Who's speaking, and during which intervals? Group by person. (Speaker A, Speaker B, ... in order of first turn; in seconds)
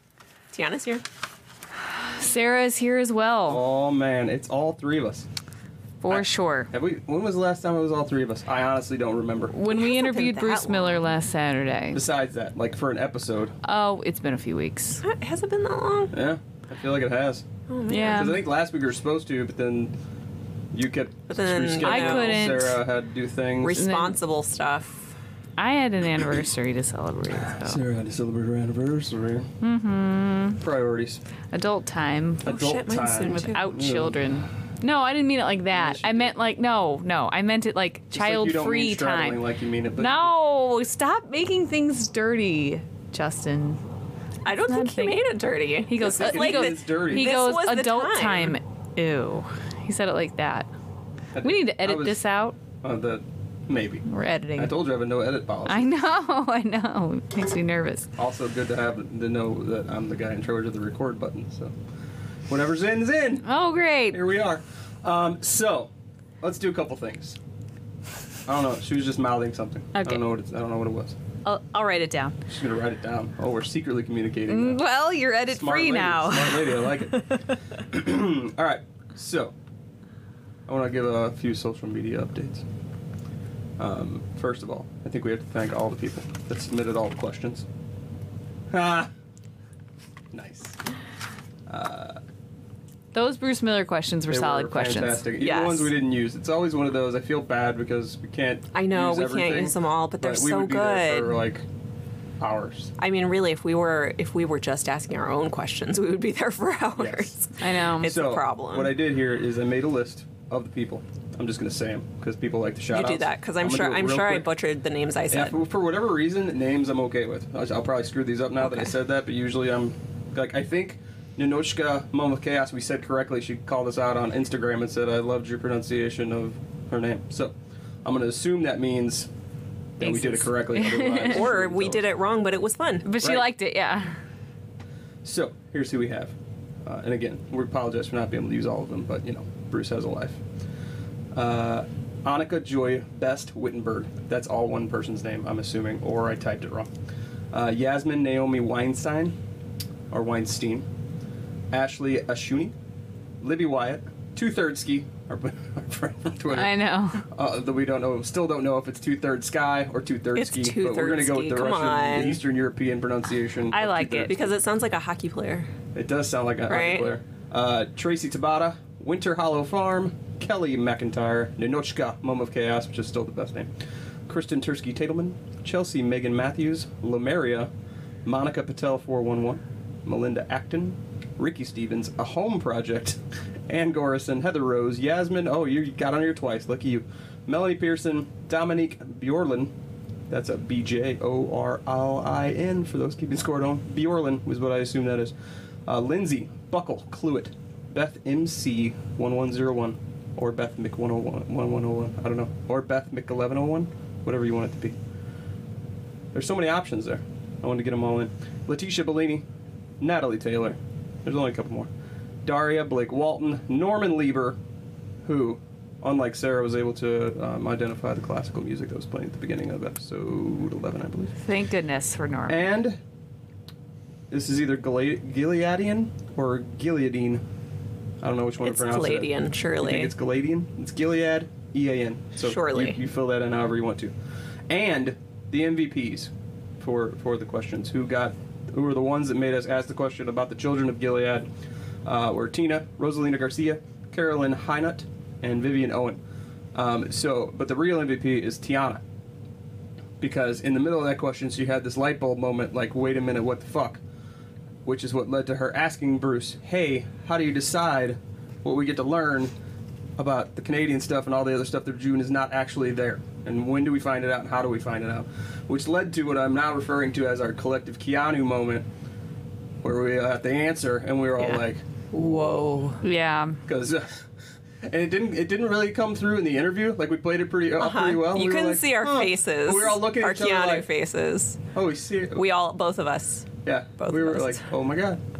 Speaker A: 0.5-1.0, 9.7-11.0, 15.0-16.1, 17.7-18.4, 21.3-22.5, 23.6-25.1, 32.4-33.6, 44.4-48.5, 95.4-95.9, 98.7-101.4, 103.0-108.9, 112.9-115.6, 118.6-118.9, 131.3-133.1, 160.3-162.4, 164.3-165.7, 166.7-167.1, 228.6-230.1, 232.4-233.0, 271.4-273.0, 277.8-281.6, 282.3-284.7
Speaker B: 1.9-3.6, 6.0-6.7, 9.5-12.0, 13.6-15.0, 17.9-18.4, 21.8-22.8, 23.7-24.2, 25.6-27.8, 29.6-30.6, 31.5-32.7, 33.2-39.4, 40.0-43.8, 44.5-45.2, 45.9-50.7, 51.4-52.6, 54.1-54.7, 55.6-58.1, 63.4-64.2, 69.9-70.2, 71.4-72.3, 74.5-77.5, 93.1-95.2, 107.6-108.2, 130.0-131.5, 133.0-134.2, 156.5-157.2, 163.7-164.3, 221.4-222.6, 273.0-273.6
Speaker C: 3.5-5.3, 6.1-9.5, 11.9-13.6, 16.1-19.9, 20.7-23.8, 27.3-29.5, 30.6-31.2, 32.4-34.4, 35.7-36.3, 38.1-40.3, 46.0-47.4, 51.3-52.2, 52.8-54.0, 54.5-55.9, 58.2-61.7, 62.5-63.5, 64.1-67.4, 68.5-71.2, 72.5-74.8, 75.5-79.5, 80.7-82.6, 83.8-87.7, 88.7-89.1, 90.3-90.8, 91.7-92.2, 94.3-101.6, 102.4-102.9, 107.0-107.3, 108.0-114.5, 115.3-129.3, 130.0-132.1, 133.2-133.5, 135.2-140.4, 141.3-146.9, 147.5-149.3, 150.1-150.8, 151.7-152.7, 153.4-164.5, 165.9-173.7, 174.3-177.7, 178.2-189.7, 190.3-195.3, 195.8-205.0, 206.3-209.4, 210.0-211.9, 212.4-214.6, 215.2-221.3, 222.5-223.0, 224.3-227.4, 228.2-234.1, 234.7-241.5, 242.0-246.2, 246.7-249.0, 250.2-254.0, 254.8-259.5, 260.2-268.9, 269.8-272.6, 273.6-274.3, 274.8-280.9, 281.7-282.4, 283.6-285.2